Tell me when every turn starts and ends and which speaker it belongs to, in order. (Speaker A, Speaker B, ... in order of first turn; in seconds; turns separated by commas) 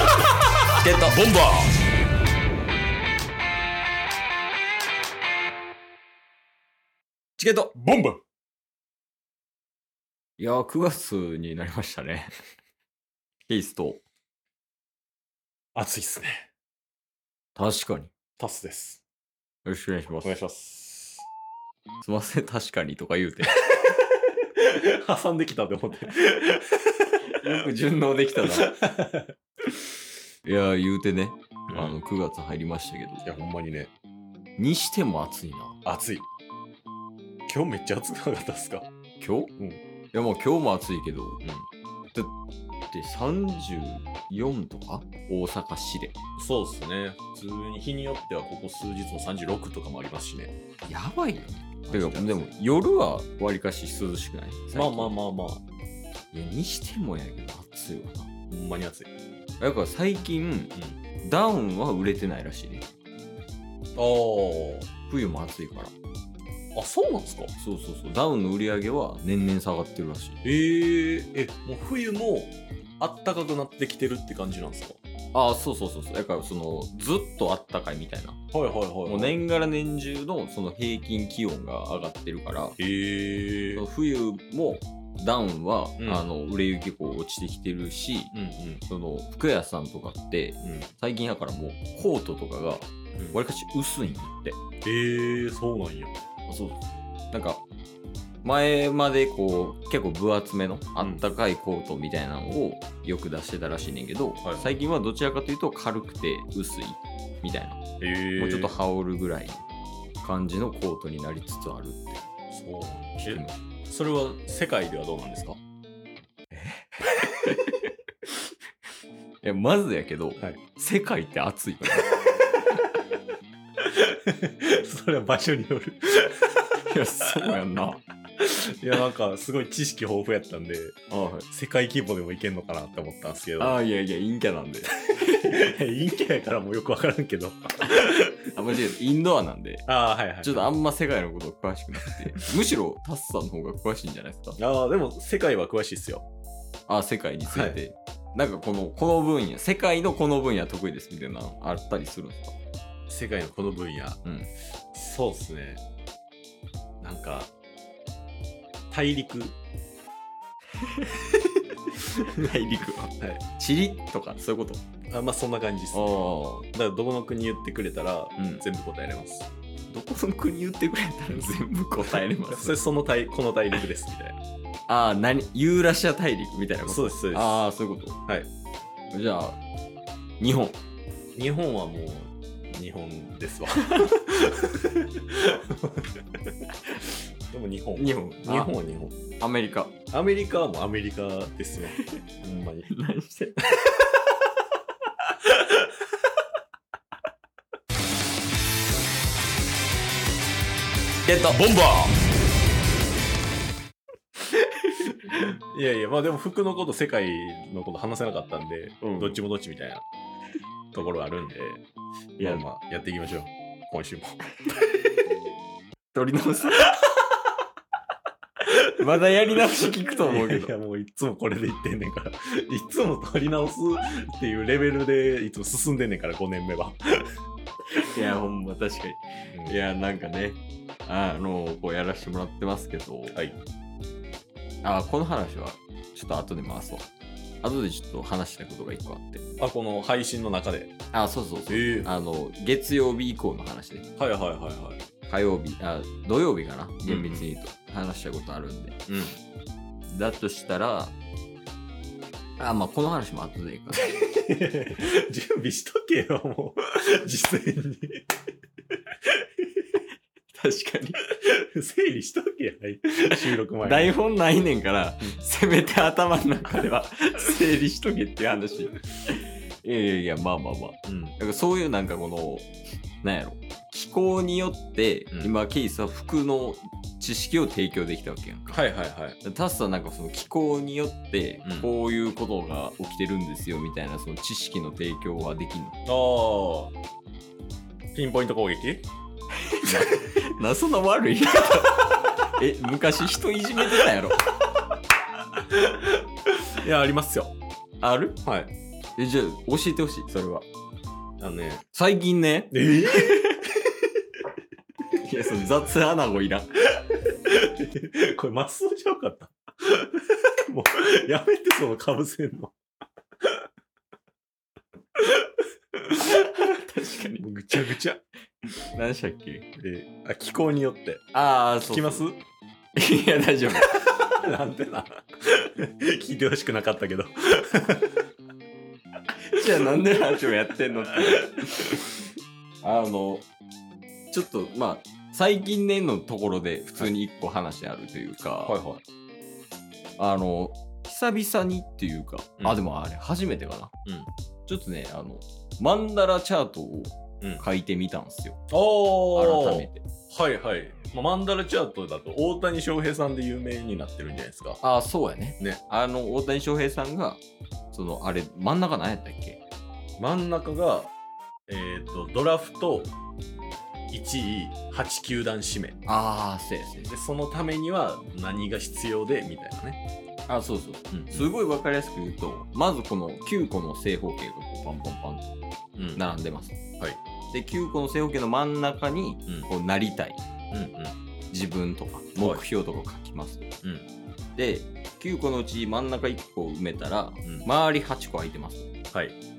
Speaker A: 0.8-1.2, Speaker B: 1.1-1.7, Speaker A: 7.4-7.7, Speaker B: 7.7-8.2, Speaker A: 10.4-12.3, Speaker A: 13.5-14.0, Speaker B: 15.7-16.5, Speaker A: 17.5-18.1, Speaker B: 18.4-19.0, Speaker A: 19.6-20.4, Speaker B: 20.2-21.2, Speaker A: 22.0-23.6, Speaker B: 24.6-27.1, Speaker A: 27.3-28.7, Speaker B: 28.5-29.3, Speaker A: 30.4-33.2, Speaker B: 31.7-32.0, Speaker B: 33.2-33.9, Speaker A: 34.6-35.8, Speaker B: 35.8-36.2, Speaker B: 37.5-38.9, Speaker A: 39.2-39.5, Speaker A: 40.1-41.4, Speaker A: 42.9-46.1, Speaker B: 46.4-50.5, Speaker A: 50.9-55.2, Speaker B: 51.9-52.5, Speaker B: 54.7-55.6, Speaker A: 56.3-58.3, Speaker B: 58.5-59.1, Speaker A: 59.6-62.8, Speaker B: 64.0-64.9, Speaker A: 65.1-65.9, Speaker B: 66.7-67.5, Speaker A: 67.6-70.4, Speaker B: 70.4-75.0, Speaker A: 75.3-78.4, Speaker B: 78.5-79.4, Speaker A: 79.0-82.8, Speaker B: 82.8-83.8, Speaker A: 83.7-88.3, Speaker B: 86.0-86.2, Speaker B: 88.3-88.8, Speaker A: 88.9-94.6, Speaker B: 90.6-90.9, Speaker B: 94.8-96.2, Speaker A: 96.5-97.6, Speaker A: 98.4-107.8, Speaker B: 104.4-104.7, Speaker B: 108.0-108.7, Speaker A: 108.4-109.6, Speaker A: 110.2-112.2, Speaker B: 112.5-115.6, Speaker A: 113.2-113.7, Speaker A: 116.5-117.9, Speaker A: 119.4-122.2, Speaker B: 123.8-126.6, Speaker A: 126.8-128.0, Speaker B: 128.4-131.0, Speaker A: 131.1-131.5, Speaker B: 131.5-133.8, Speaker A: 133.6-135.6, Speaker B: 135.2-138.1, Speaker A: 137.9-139.8, Speaker B: 139.9-140.7, Speaker A: 140.4-144.6, Speaker B: 144.6-146.2, Speaker A: 146.9-152.5, Speaker B: 147.5-147.8, Speaker B: 153.1-154.2, Speaker A: 154.2-154.5, Speaker B: 154.9-155.8, Speaker B: 157.0-157.5, Speaker B: 158.9-159.6, Speaker A: 160.8-161.2, Speaker A: 161.9-164.8, Speaker B: 165.1-166.2, Speaker A: 165.9-166.7, Speaker B: 166.7-169.5, Speaker A: 168.4-168.6, Speaker A: 169.9-172.8, Speaker B: 172.1-174.4, Speaker A: 174.9-178.2, Speaker B: 176.8-177.6, Speaker A: 179.1-179.6, Speaker A: 180.4-180.8, Speaker B: 181.3-186.2, Speaker B: 186.9-189.1, Speaker A: 188.0-188.7, Speaker A: 189.4-189.9, Speaker B: 190.1-192.9, Speaker A: 192.9-194.1, Speaker A: 201.2-202.1, Speaker A: 204.8-205.1, Speaker B: 205.4-210.0, Speaker A: 209.0-209.4, Speaker B: 210.9-211.8, Speaker A: 212.4-212.6, Speaker B: 212.4-214.4, Speaker A: 216.1-217.0, Speaker A: 218.8-220.7, Speaker B: 220.2-227.2, Speaker A: 228.0-233.3, Speaker B: 229.5-229.8, Speaker A: 234.8-237.1, Speaker A: 237.6-239.4, Speaker B: 239.6-240.9, Speaker A: 241.1-244.1, Speaker B: 241.7-242.1, Speaker B: 244.2-245.0, Speaker A: 245.2-249.0, Speaker B: 247.1-247.5, Speaker B: 249.1-249.3, Speaker A: 250.1-251.1, Speaker A: 252.6-254.1, Speaker B: 254.2-258.2, Speaker A: 260.5-261.2, Speaker B: 261.4-264.2, Speaker A: 263.8-272.7, Speaker B: 271.1-271.4, Speaker A: 273.2-278.8, Speaker B: 278.7-279.4, Speaker A: 279.4-286.0, Speaker B: 281.6-281.9, Speaker B: 286.1-286.9, Speaker B: 288.1-289.0, Speaker A: 289.6-294.4, Speaker B: 289.9-290.1, Speaker B: 296.7-297.6, Speaker A: 298.0-298.4, Speaker B: 298.4-298.7, Speaker A: 299.2-300.6, Speaker B: 301.4-301.8, Speaker A: 301.9-303.7, Speaker B: 302.7-303.6, Speaker A: 305.1-306.8, Speaker B: 307.4-312.7, Speaker A: 316.0-317.4, Speaker B: 317.4-318.2, Speaker A: 318.9-319.7, Speaker B: 319.8-321.3, Speaker A: 321.3-322.2, Speaker B: 321.9-322.4, Speaker A: 322.9-324.3, Speaker B: 324.2-328.1, Speaker A: 329.5-332.2, Speaker A: 332.8-333.4, Speaker A: 334.3-338.8, Speaker B: 338.6-339.0, Speaker A: 340.2-343.9, Speaker A: 344.7-348.6, Speaker B: 348.7-354.8, Speaker A: 349.3-350.0, Speaker A: 354.8-357.4, Speaker A: 357.9-359.6, Speaker B: 360.2-361.1, Speaker B: 361.7-363.1, Speaker B: 364.1-366.0, Speaker A: 366.1-367.1, Speaker B: 367.0-370.0, Speaker A: 370.5-375.5, Speaker B: 371.1-371.5, Speaker B: 375.9-376.2, Speaker A: 376.1-376.8, Speaker A: 377.5-380.4, Speaker B: 380.7-381.1, Speaker A: 381.5-383.7, Speaker B: 383.8-384.1, Speaker A: 384.6-388.9